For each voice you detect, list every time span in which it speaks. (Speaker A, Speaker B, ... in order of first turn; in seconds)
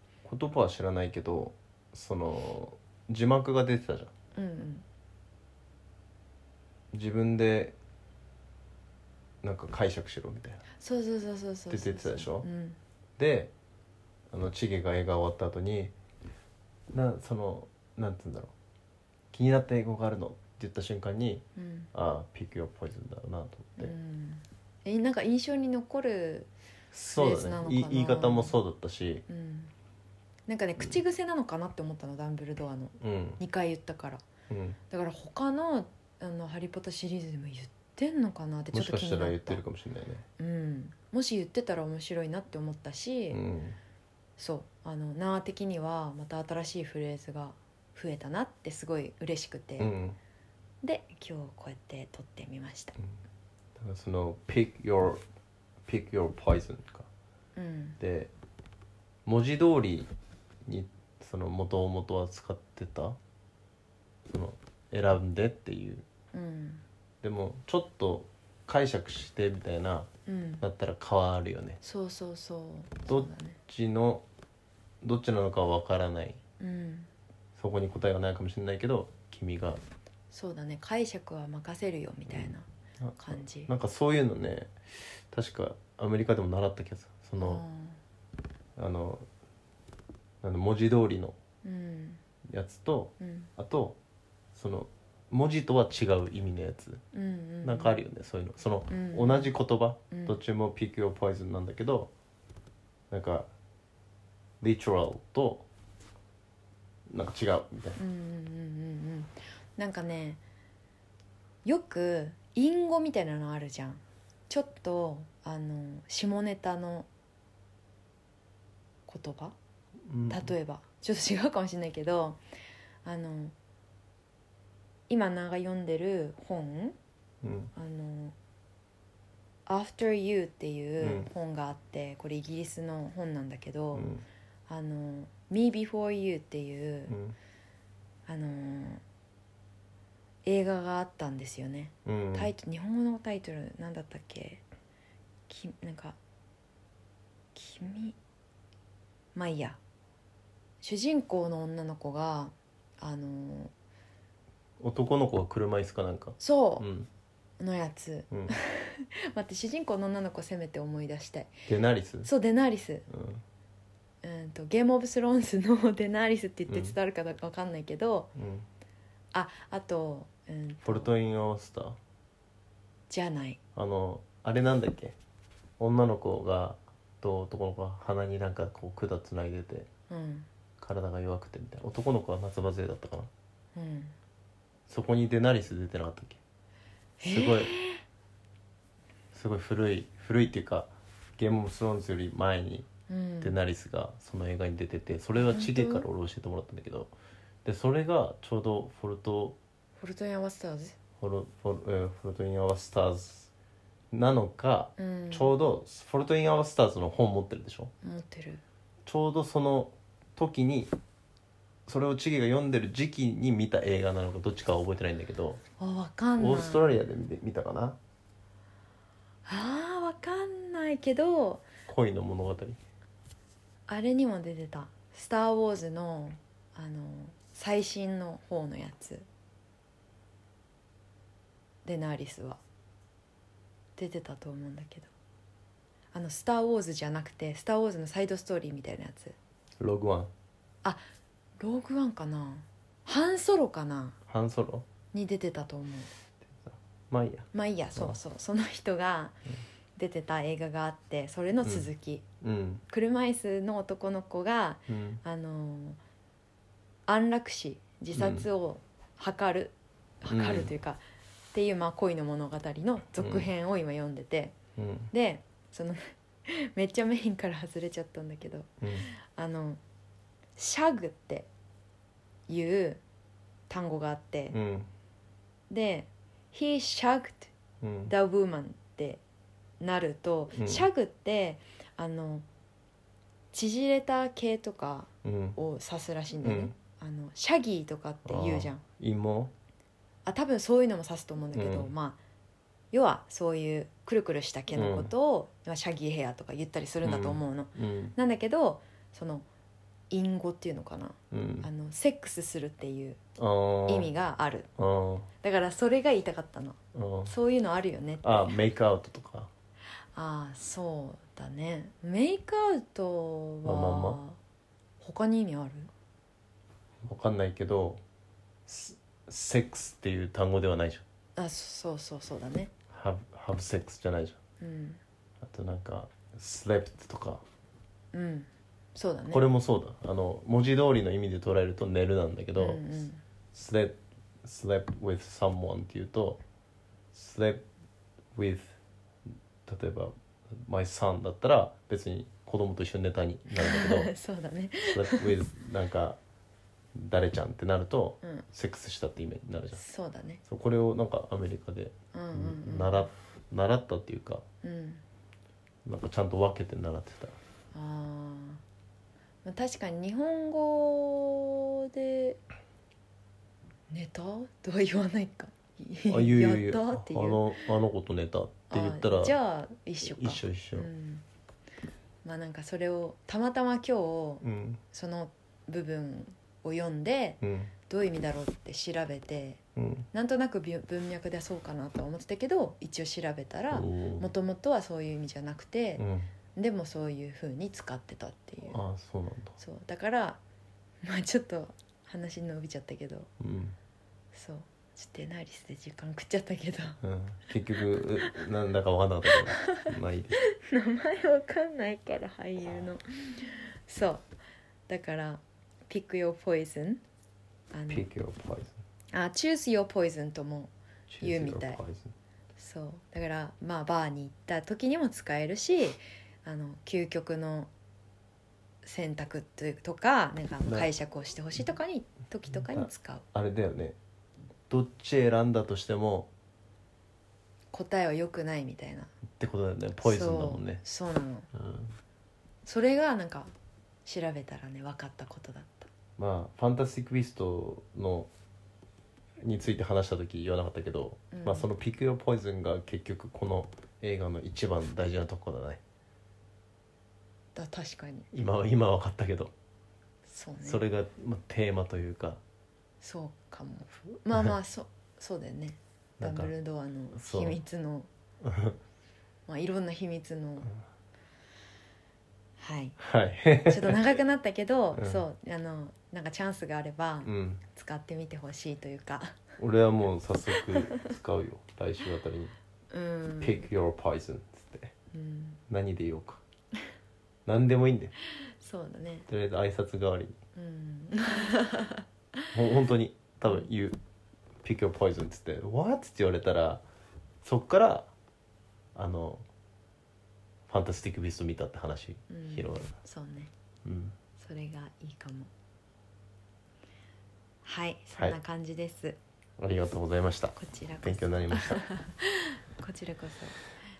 Speaker A: 0.2-4.1, 6.9-7.8, 9.4-10.6, 11.7-12.5, 13.2-13.5, 14.3-15.9, 16.9-18.5, 19.3-23.9, 26.9-29.3, 33.0-33.4, 34.5-34.8, 38.7-40.3, 43.3-43.8, 49.8-50.2, 53.8-55.2, 55.9-57.1, 58.0-58.3, 59.3-60.1, 60.7-63.2, 64.3-66.0, 67.2-71.8, 73.1-74.2, 75.0-76.4, 77.6-79.8, 82.3-84.8, 85.3-87.6, 88.8-89.3, 90.4-91.4, 92.5-94.0, 94.5-97.0, 97.6-102.1, 103.1-103.5, 104.6-105.7, 107.1-108.0, 120.1-120.5, 127.4-127.7, 131.0-131.3, 133.9-134.2, 137.1-137.4, 142.1-142.5, 154.8-157.1, 161.7-162.3, 163.1-163.4, 166.7-167.0, 168.3-168.7, 170.8-172.0, 173.8-175.2, 175.8-179.9, 180.8-183.3, 184.9-186.4, 187.3-187.7, 189.3-192.9, 193.4-197.1, 197.7-199.6, 201.2-203.5, 204.1-207.9, 209.1-210.9, 211.9-215.6, 216.4-218.0, 221.9-222.8, 239.8-240.3, 244.3-244.9, 246.6-248.2, 251.6-251.9, 252.4-252.8, 254.9-255.2, 258.1-258.5, 260.3-260.7, 263.2-263.5, 264.8-265.1, 268.8-269.1, 274.5-274.9, 277.8-278.1, 280.5-280.9, 285.2-285.6, 286.4-286.7, 288.3-289.5, 291.5-291.9, 294.7-295.1, 297.0-298.2, 301.3-301.7, 303.4-304.1, 304.8-305.3, 306.9-307.3, 308.2-309.5, 313.6-314.2, 317.0-318.0, 318.7-321.0, 322.9-324.4, 325.4-327.4, 329.3-332.8, 333.5-336.4, 337.1-337.6, 338.3-338.8, 339.7-344.1, 344.8-346.2, 347.0-349.8, 350.4-354.4, 355.9-357.4, 366.1-369.4, 370.0-370.9, 374.4-374.8, 377.4-377.7, 379.8-380.1, 383.7-384.3, 386.0-386.3, 388.6-389.6, 393.4-393.8, 397.0-400.4, 407.9-408.8, 411.1-412.1, 420.6-420.9, 422.6-424.0, 424.7-426.3, 429.4-430.8, 431.5-431.9, 436.2-438.3, 439.4-445.8, 448.3-449.5, 450.6-452.4, 456.2-456.5, 457.1-457.6, 458.4-458.8, 463.0-464.1, 464.9-465.2, 467.2-467.6, 469.6-472.5, 473.4-474.9, 475.7-476.4, 477.5-478.1, 479.3-480.4, 482.5-484.0, 484.6-486.8, 487.4-488.1, 488.9-489.4, 490.7-492.9, 493.9-494.2, 499.6-501.8
Speaker B: 4.3-4.8, 10.8-12.8, 21.6-21.9, 23.8-26.5, 27.1-28.6, 29.3-29.7, 30.5-34.2, 34.9-39.6, 40.4-43.4, 44.4-49.9, 50.8-53.0, 57.6-58.0, 66.3-66.8, 70.3-70.7, 71.8-73.6, 76.6-77.1, 80.3-82.7, 83.2-83.7, 87.4-88.0, 91.6-92.2, 93.2-93.5, 97.1-98.0, 98.9-99.5, 100.1-100.4, 108.0-110.4, 111.6-117.1, 119.1-119.5, 120.3-122.4, 123.0-123.5, 125.1-127.0, 127.8-128.3, 129.7-134.1, 134.7-137.2, 138.3-139.0, 140.4-144.6, 145.5-146.2, 147.6-148.2, 149.3-149.8, 150.8-153.7, 156.4-156.9, 157.6-161.5, 162.2-163.1, 164.2-168.3, 169.3-171.2, 173.1-173.6, 180.1-180.5, 183.8-184.2, 187.2-188.0, 193.1-193.6, 195.4-196.1, 200.0-201.0, 205.0-205.6, 208.0-208.6, 215.8-217.0, 219.5-221.7, 223.9-229.3, 231.8-232.6, 234.0-235.1, 236.1-239.4, 241.6-244.2, 245.1-246.1, 247.5-249.4, 250.0-252.2, 252.9-256.0, 257.1-261.0, 261.5-264.6, 265.1-269.8, 270.6-271.5, 272.5-273.0, 273.7-274.6, 275.7-277.5, 278.1-279.2, 279.8-282.5, 283.5-288.8, 290.2-292.2, 292.9-299.5, 300.1-303.2, 303.9-304.7, 305.4-308.6, 310.1-314.4, 315.0-315.9, 321.4-322.7, 324.6-325.0, 328.1-329.5, 332.6-333.2, 343.5-345.4, 349.7-350.4, 352.1-353.1, 354.6-355.0, 357.7-358.6, 359.4-362.4, 363.9-367.5, 368.7-371.2, 372.2-379.6, 380.1-388.8, 389.6-390.4, 391.0-393.3, 394.3-397.0, 399.3-404.3, 404.9-407.0, 407.7-408.1, 409.1-411.8, 412.6-417.7, 418.8-423.3, 427.7-429.1, 430.0-431.5, 432.6-433.5, 434.1-435.9, 441.3-441.7, 447.6-448.3, 450.3-450.8, 453.0-458.1, 459.5-460.7, 462.6-463.0, 463.7-469.4, 470.5-471.1, 472.9-473.7, 475.1-475.6, 478.6-479.3, 480.6-482.5, 492.3-493.5, 494.4-495.5, 497.6-499.2, 500.6-503.6